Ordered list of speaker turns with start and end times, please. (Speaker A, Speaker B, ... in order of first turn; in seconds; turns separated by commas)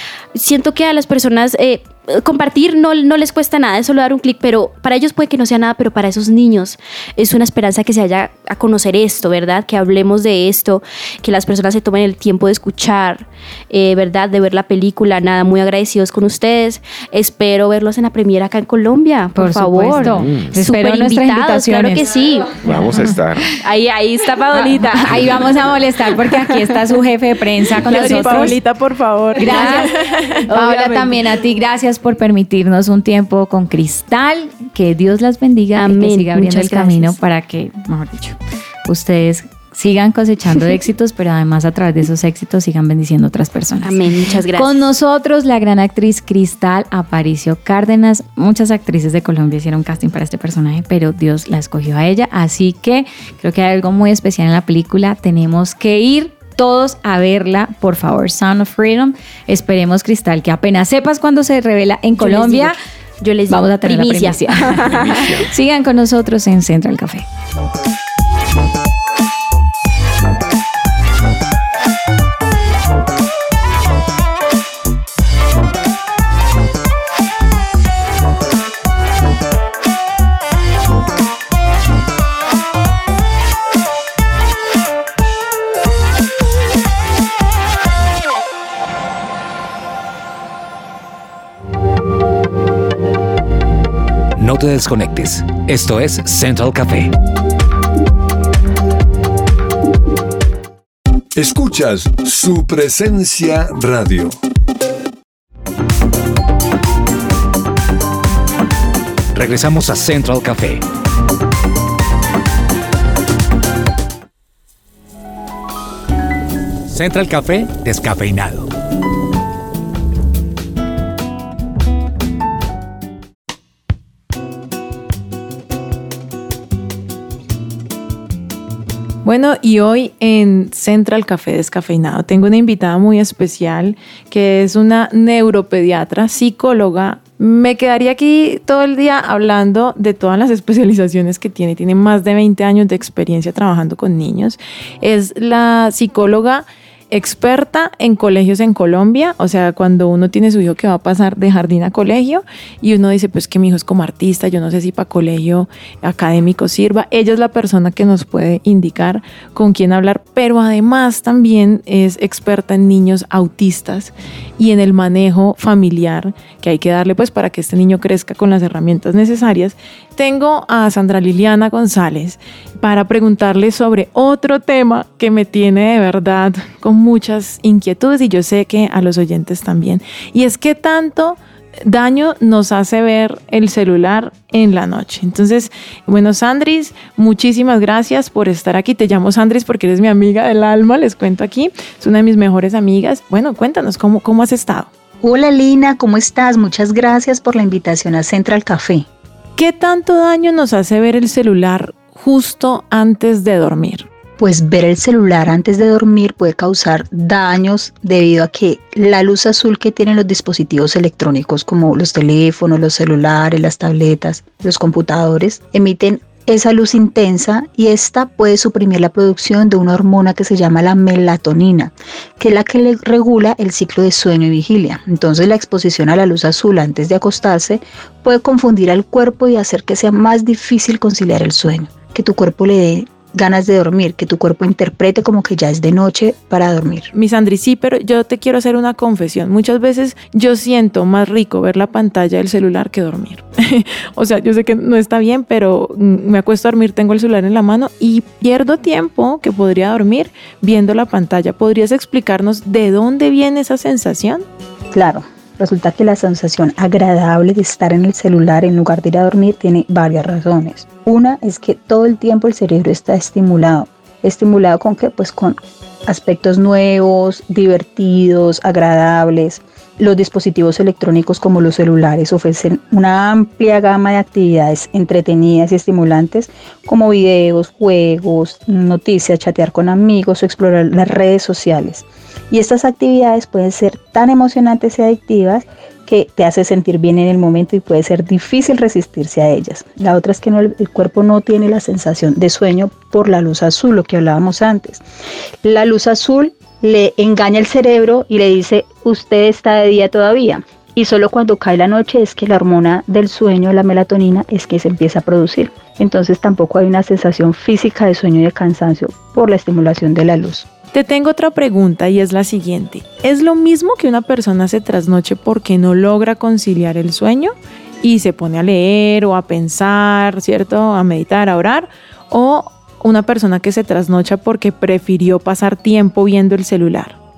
Speaker A: 0.3-22.7, Speaker B: 19.4-22.1, Speaker C: 20.0-20.5, Speaker C: 22.6-23.5, Speaker A: 23.6-25.5, Speaker B: 24.5-28.6, Speaker C: 25.1-25.4, Speaker A: 26.1-26.7, Speaker D: 27.8-30.4, Speaker A: 27.9-28.6, Speaker B: 29.4-29.9, Speaker A: 29.4-31.2, Speaker B: 30.5-44.0, Speaker A: 35.8-37.2, Speaker A: 43.8-44.9, Speaker B: 44.5-62.8, Speaker A: 62.2-65.2, Speaker B: 63.5-67.2, Speaker C: 64.8-65.5, Speaker E: 94.4-97.1, Speaker F: 101.3-104.4, Speaker E: 109.3-110.8, Speaker E: 116.9-118.7, Speaker D: 129.2-194.9, Speaker G: 195.2-199.1, Speaker D: 199.6-204.1, Speaker G: 204.4-237.1, Speaker D: 237.1-254.4, Speaker G: 254.9-295.0, Speaker G: 295.6-310.7, Speaker D: 310.9-327.2